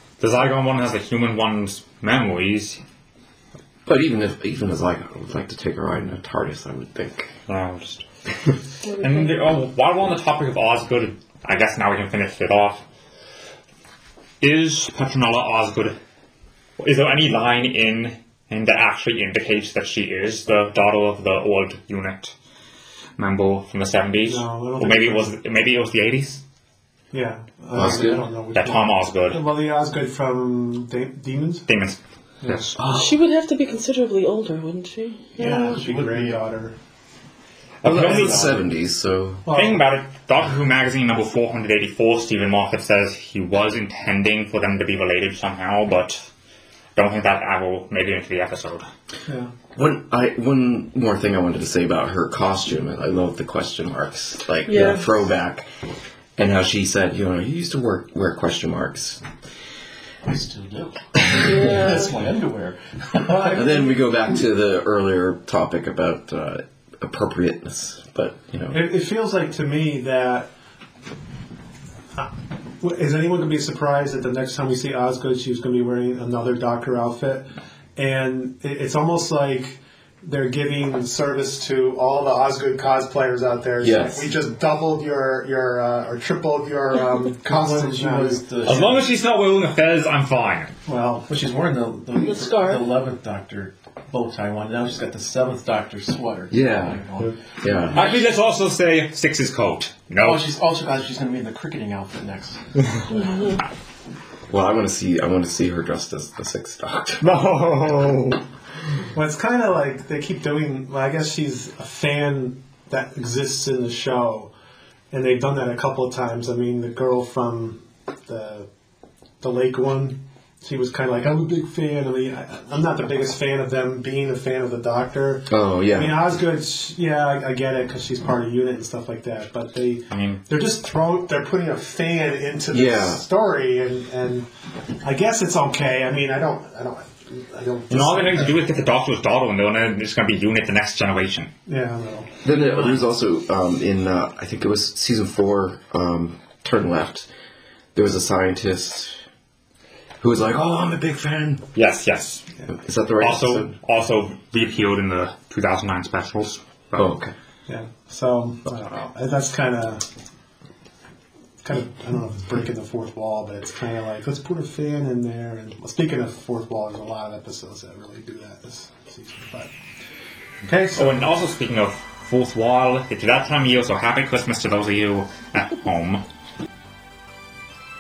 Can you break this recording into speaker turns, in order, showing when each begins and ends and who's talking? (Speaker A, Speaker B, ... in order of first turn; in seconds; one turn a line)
Speaker A: 0.2-2.8
Speaker B: 3.9-7.3
Speaker A: 7.5-8.1
Speaker C: 8.8-9.3
Speaker A: 9.0-12.9
Speaker A: 14.4-15.9
Speaker A: 16.8-22.4
Speaker A: 23.2-26.4
Speaker D: 24.2-25.3
Speaker D: 27.1-31.7
Speaker B: 27.7-28.3
Speaker A: 28.5-29.4
Speaker A: 31.7-32.8
Speaker D: 32.4-32.7
Speaker B: 32.8-33.2
Speaker C: 32.9-35.6
Speaker E: 35.4-36.5
Speaker D: 35.4-36.8
Speaker A: 37.8-38.5
Speaker B: 37.8-39.5
Speaker E: 38.2-38.6
Speaker D: 39.5-39.8
Speaker A: 39.5-46.3
Speaker A: 47.0-48.9
Speaker D: 49.3-49.5
Speaker B: 49.8-55.7
Speaker C: 54.7-55.1
Speaker B: 56.4-59.2
Speaker E: 60.2-63.6
Speaker B: 61.3-61.6
Speaker C: 61.4-62.1
Speaker D: 63.4-63.9
Speaker B: 63.5-68.8
Speaker D: 68.7-70.5
Speaker D: 72.8-88.7
Speaker B: 83.8-84.3
Speaker E: 87.4-89.1
Speaker A: 88.7-90.8
Speaker D: 90.9-91.3
Speaker E: 91.3-98.2
Speaker C: 92.2-92.9
Speaker B: 96.5-97.0
Speaker B: 97.6-98.0
Speaker A: 97.9-100.5
Speaker E: 100.2-102.6
Speaker C: 103.1-103.6
Speaker B: 104.5-107.3
Speaker A: 107.2-108.4
Speaker D: 109.1-114.5
Speaker D: 115.1-118.7
Speaker D: 119.4-134.5
Speaker B: 125.5-126.2
Speaker A: 130.1-130.4
Speaker B: 132.7-133.2
Speaker D: 135.0-138.6
Speaker A: 137.9-141.5
Speaker D: 141.7-142.3
Speaker B: 142.4-147.3
Speaker B: 147.9-149.2
Speaker B: 150.2-151.7
Speaker A: 151.8-152.5
Speaker B: 152.7-153.7
Speaker A: 153.2-157.1
Speaker B: 157.0-157.3
Speaker D: 157.7-160.0
Speaker D: 161.6-169.7
Speaker D: 170.6-171.2
Speaker A: 170.9-176.2